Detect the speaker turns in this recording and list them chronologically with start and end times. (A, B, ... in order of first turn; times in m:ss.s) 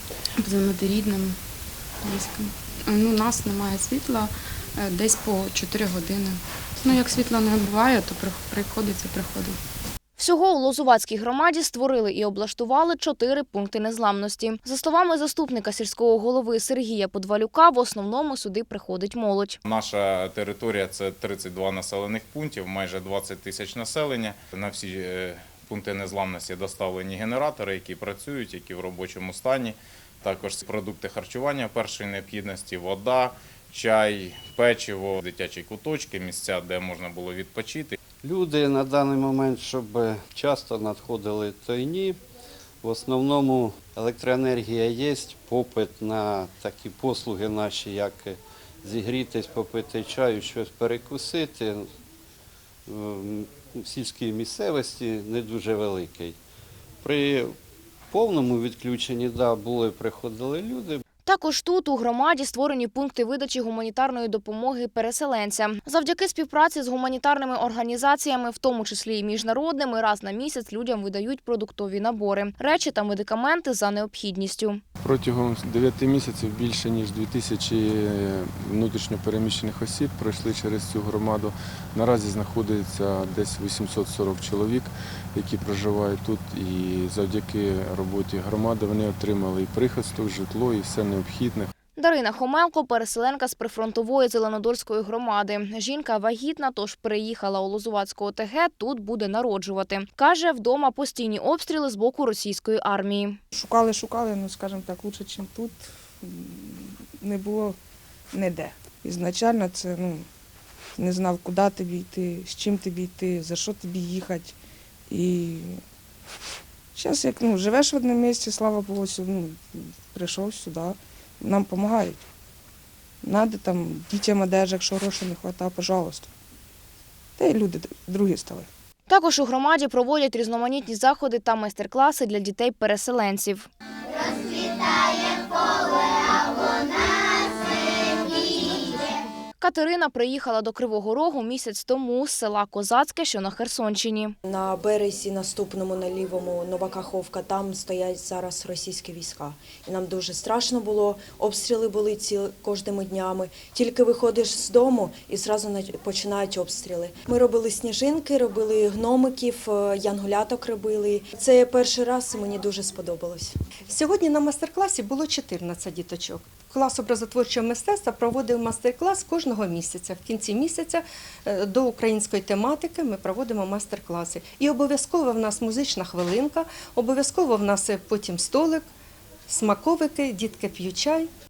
0:00.4-0:01.4 A
0:02.0-0:09.6 A
0:10.2-0:19.6 B
0:19.6-0:38.0 C
0:38.2-0:42.2 D
0:42.8-0:51.9 D
0:52.9-0:56.4 D
0:57.0-0:57.6 D
0:58.1-1:01.0 D
1:01.3-1:14.8 B
1:15.0-1:31.7 E
1:32.0-1:43.4 B
1:43.5-1:47.8 F
1:48.3-1:50.3 F
1:51.0-1:54.6 F
1:55.1-1:55.8 F
1:57.0-2:02.2 F
2:03.2-2:06.3 F
2:07.4-2:08.7 F
2:09.1-2:13.7 B
2:19.6-2:24.4 B
2:24.4-2:43.6 G
2:43.9-2:58.9 H
2:59.5-3:01.3 H